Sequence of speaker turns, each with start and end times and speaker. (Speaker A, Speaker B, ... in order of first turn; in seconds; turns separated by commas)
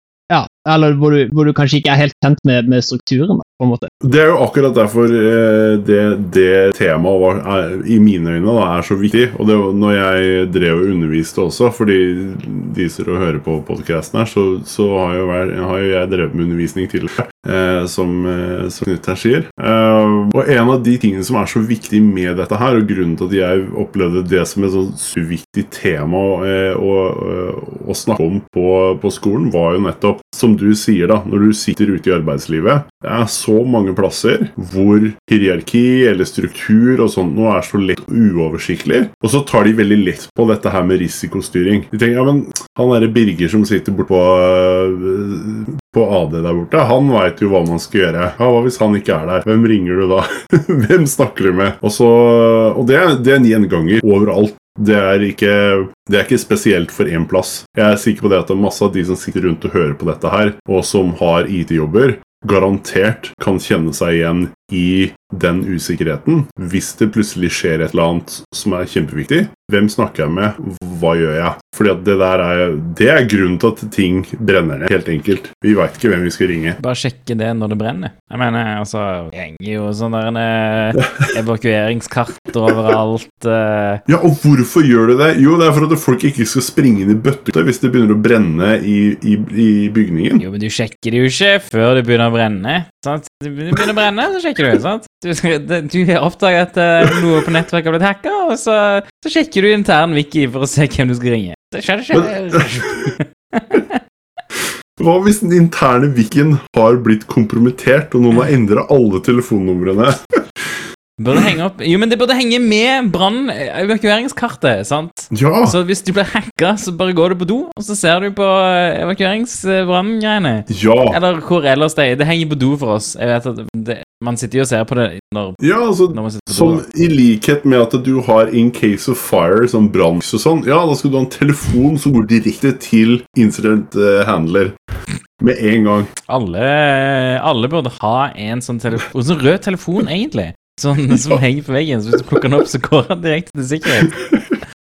Speaker A: 0.3-3.9, Speaker B: 4.0-76.8, Speaker C: 76.8-84.0, Speaker B: 84.1-90.4, Speaker C: 90.4-104.0, Speaker B: 102.1-102.8, Speaker B: 105.0-110.2, Speaker C: 111.2-125.6, Speaker B: 115.3-115.8, Speaker B: 120.7-121.2, Speaker B: 125.6-134.8, Speaker C: 126.1-126.8, Speaker B: 135.4-136.1, Speaker C: 136.3-144.2, Speaker B: 141.1-141.4